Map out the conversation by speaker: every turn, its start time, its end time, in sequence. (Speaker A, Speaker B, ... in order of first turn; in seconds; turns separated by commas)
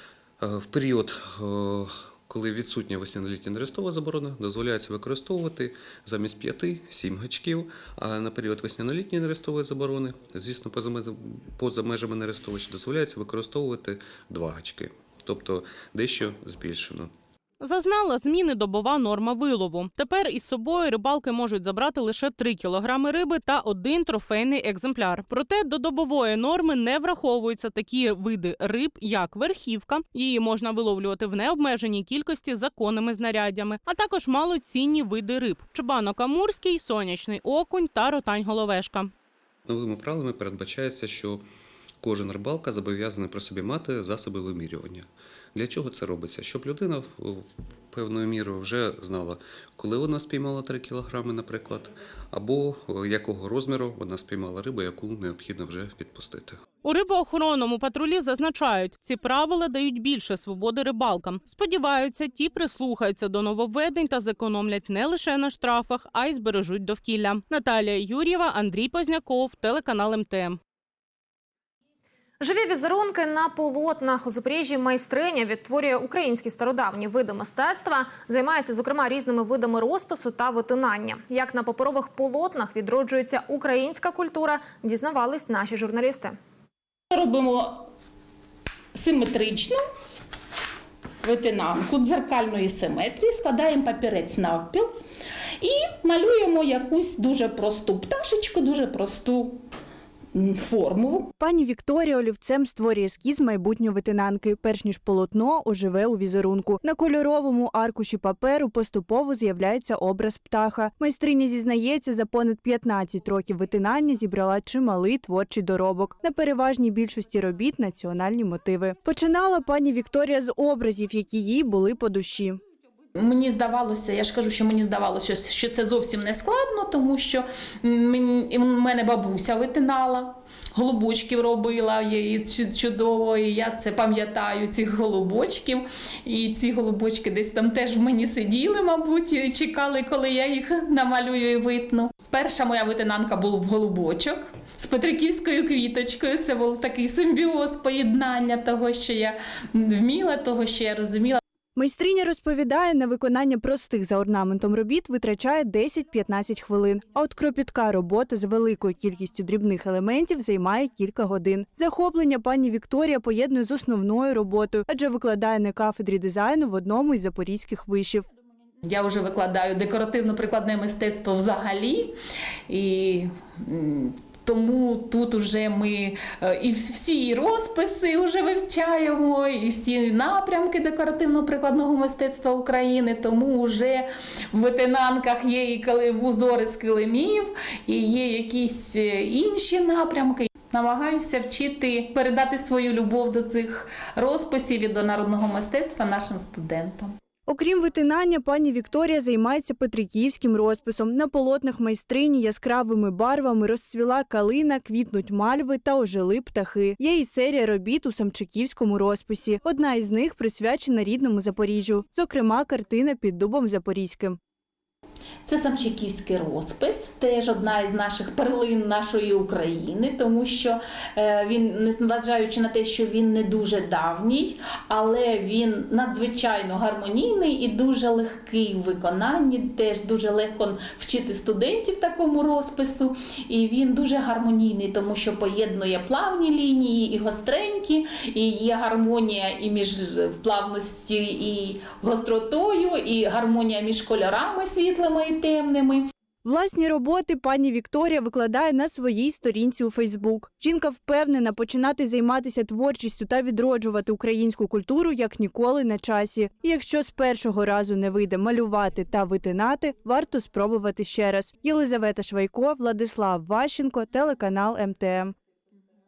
Speaker A: 0.4-17.1, Speaker B: 17.6-39.1, Speaker A: 39.6-41.4, Speaker A: 42.0-56.6, Speaker B: 56.8-70.6, Speaker C: 72.4-86.4, Speaker D: 87.1-87.9, Speaker D: 88.9-89.8, Speaker D: 91.2-94.9, Speaker D: 95.6-99.6, Speaker D: 100.3-101.3, Speaker E: 101.4-122.6, Speaker D: 123.2-151.4, Speaker E: 151.8-168.2, Speaker D: 168.8-172.1, Speaker D: 172.7-197.1, Speaker E: 197.5-214.4, Speaker D: 215.4-246.1, Speaker E: 246.4-265.3